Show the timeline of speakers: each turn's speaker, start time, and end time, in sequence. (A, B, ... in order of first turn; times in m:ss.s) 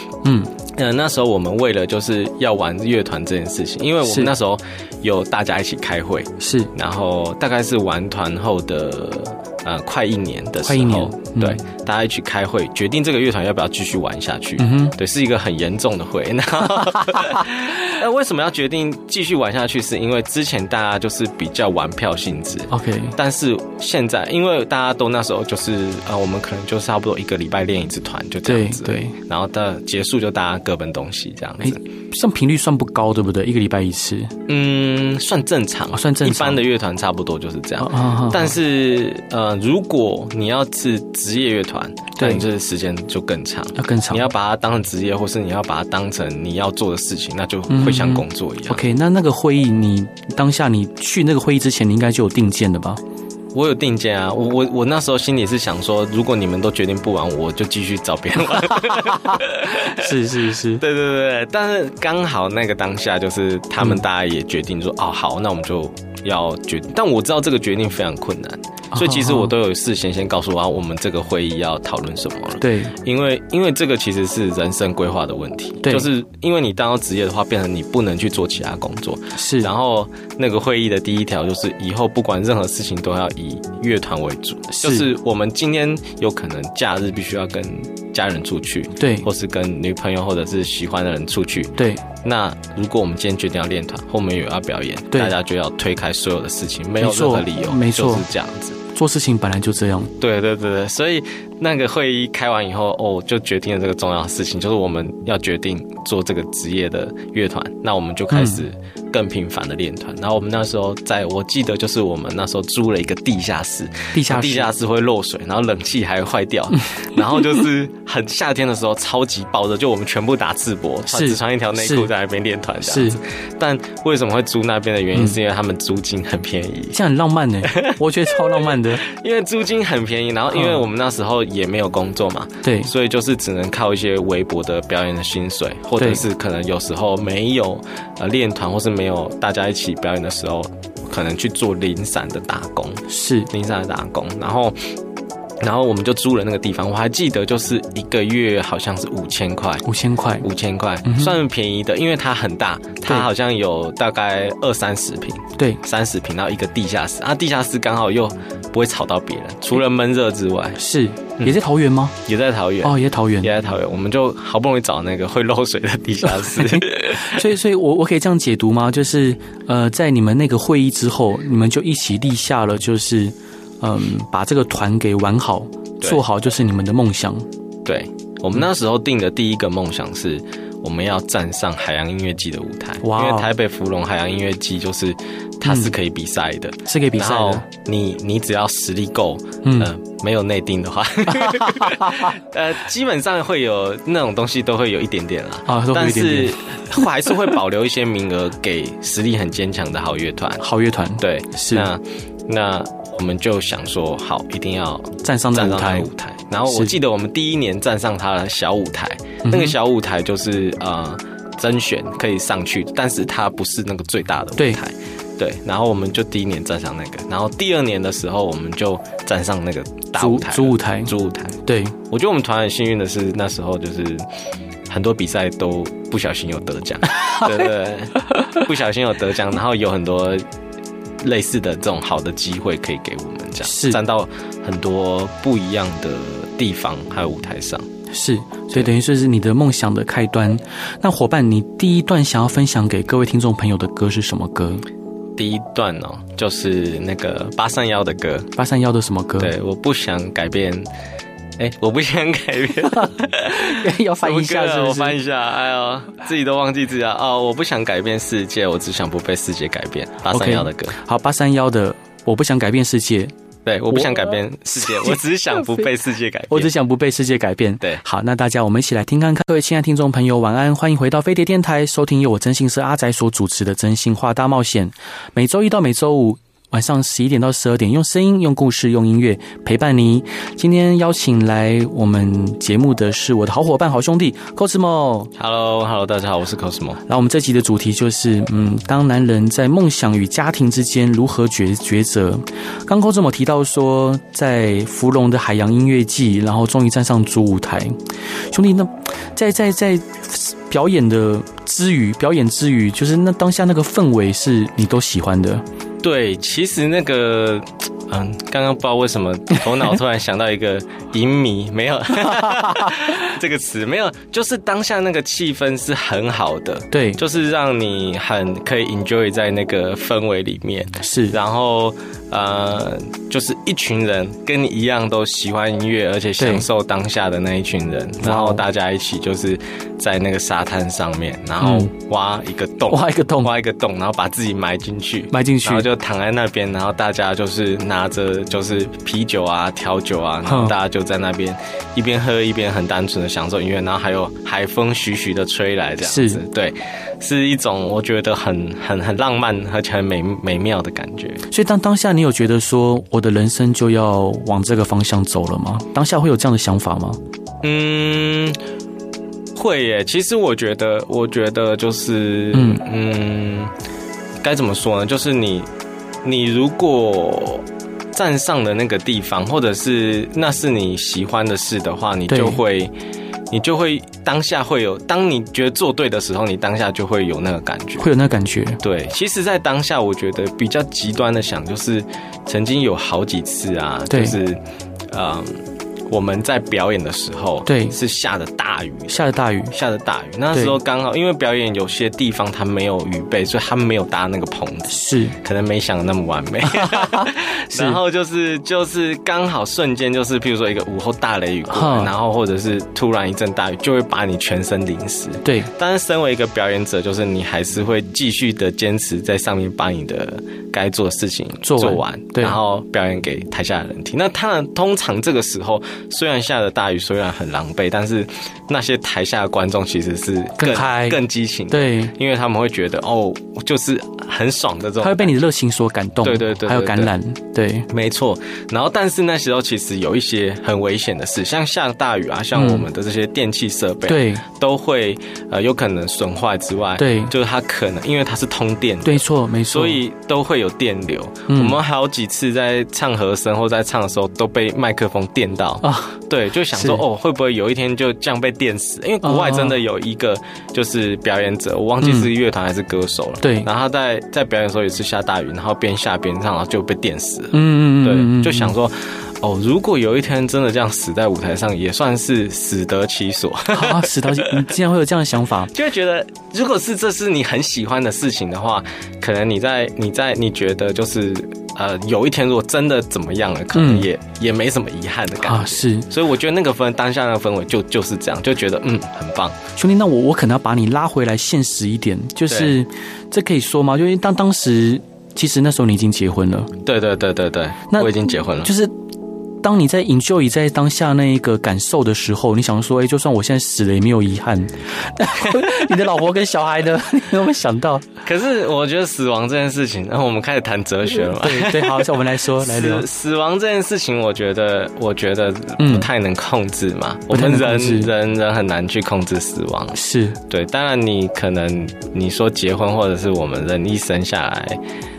0:00.2-0:00.5 A
0:00.7-0:31.8 B
0:04.0-0:04.3 A
0:06.4-0:06.7 A
0:10.6-0:11.6 A
0:14.6-0:14.9 A
0:22.7-0:23.2 A
0:28.4-0:29.2 A
0:31.6-0:34.3 A
0:34.5-0:48.8 B
0:35.9-0:36.6 A
0:37.8-0:38.5 A
0:42.2-0:42.4 A
0:43.8-0:44.2 A
0:47.7-0:53.0 A
0:53.5-1:38.8 B
0:58.7-1:00.8 A
1:08.9-1:09.5 A
1:12.6-1:12.9 A
1:15.8-1:16.1 A
1:19.4-1:19.7 A
1:24.7-1:25.1 A
1:29.0-1:29.2 A
1:31.8-1:32.0 A
1:37.0-1:38.2 A
1:38.9-1:40.1 A
1:40.2-2:07.0 B
1:48.3-1:48.6 A
1:54.1-1:54.7 A
2:01.1-2:02.1 A
2:02.8-2:03.2 A
2:06.9-2:09.0 A
2:07.6-2:24.9 B
2:10.5-2:10.8 A
2:12.6-2:12.9 A
2:23.1-2:23.5 A
2:25.6-2:29.8 B
2:29.8-2:30.5 A
2:30.4-2:40.8 B
2:31.0-2:31.3 A
2:40.8-2:42.1 A
2:42.2-2:47.4 B
2:42.8-2:43.5 A
2:46.4-2:57.4 A
2:57.8-3:20.6 B
3:03.0-3:03.5 A
3:05.6-3:05.9 A
3:06.8-3:07.6 A
3:09.6-3:09.9 A
3:11.4-3:12.3 A
3:15.7-3:16.8 A
3:20.6-3:21.9 A
3:21.2-3:44.2 B
3:25.2-3:26.1 A
3:29.4-3:29.7 A
3:40.2-3:41.1 A
3:41.6-3:42.0 A
3:44.9-3:50.4 B
3:51.2-3:57.9 B
3:53.6-3:54.0 A
3:58.1-4:04.8 A
4:05.4-4:08.5 B
4:08.6-4:09.5 A
4:09.4-4:10.9 B
4:11.6-4:21.0 B
4:13.5-4:15.2 A
4:20.3-4:23.3 A
4:23.6-4:26.7 B
4:23.9-4:25.2 A
4:26.5-4:45.3 A
4:45.4-4:47.0 B
4:47.1-4:58.0 A
4:58.5-5:05.6 A
5:06.0-5:51.4 B
5:16.9-5:17.2 A
5:21.0-5:21.4 A
5:26.4-5:26.6 A
5:28.2-5:28.6 A
5:31.6-5:31.9 A
5:32.9-5:33.5 A
5:35.3-5:35.9 A
5:40.4-5:40.7 A
5:46.0-5:46.4 A
5:51.5-5:57.2 A
5:57.6-5:58.6 B
5:59.5-6:03.7 B
6:02.5-6:02.8 A
6:04.4-6:05.7 B
6:06.2-6:12.9 B
6:12.3-6:12.6 A
6:13.5-6:18.1 B
6:18.0-6:18.8 A
6:18.8-7:05.4 B
6:24.1-6:24.4 A
6:27.6-6:28.0 A
6:29.1-6:29.7 A
6:34.9-6:35.4 A
6:36.7-6:38.0 A
6:41.7-6:42.1 A
6:45.4-6:45.7 A
6:51.6-6:52.6 A
7:00.6-7:02.1 A
7:05.0-7:07.9 A
7:06.2-7:07.1 B
7:07.9-7:44.7 B
7:12.5-7:12.8 A
7:14.1-7:14.4 A
7:17.0-7:17.3 A
7:19.0-7:20.0 A
7:21.5-7:21.8 A
7:25.8-7:26.1 A
7:26.7-7:27.0 A
7:29.2-7:29.8 A
7:32.0-7:32.3 A
7:33.4-7:33.7 A
7:37.5-7:38.7 A
7:43.7-7:45.7 A
7:45.6-7:59.6 B
7:53.7-7:54.1 A
7:55.4-7:56.1 A
7:59.8-8:06.7 A
8:02.5-8:02.7 B
8:06.8-8:08.7 B
8:07.9-8:08.9 A
8:09.6-8:18.0 A
8:15.5-8:15.9 B
8:18.2-8:30.0 B
8:21.1-8:23.0 A
8:25.8-8:26.1 A
8:27.3-8:28.1 A
8:29.9-8:30.4 A
8:30.5-8:34.8 B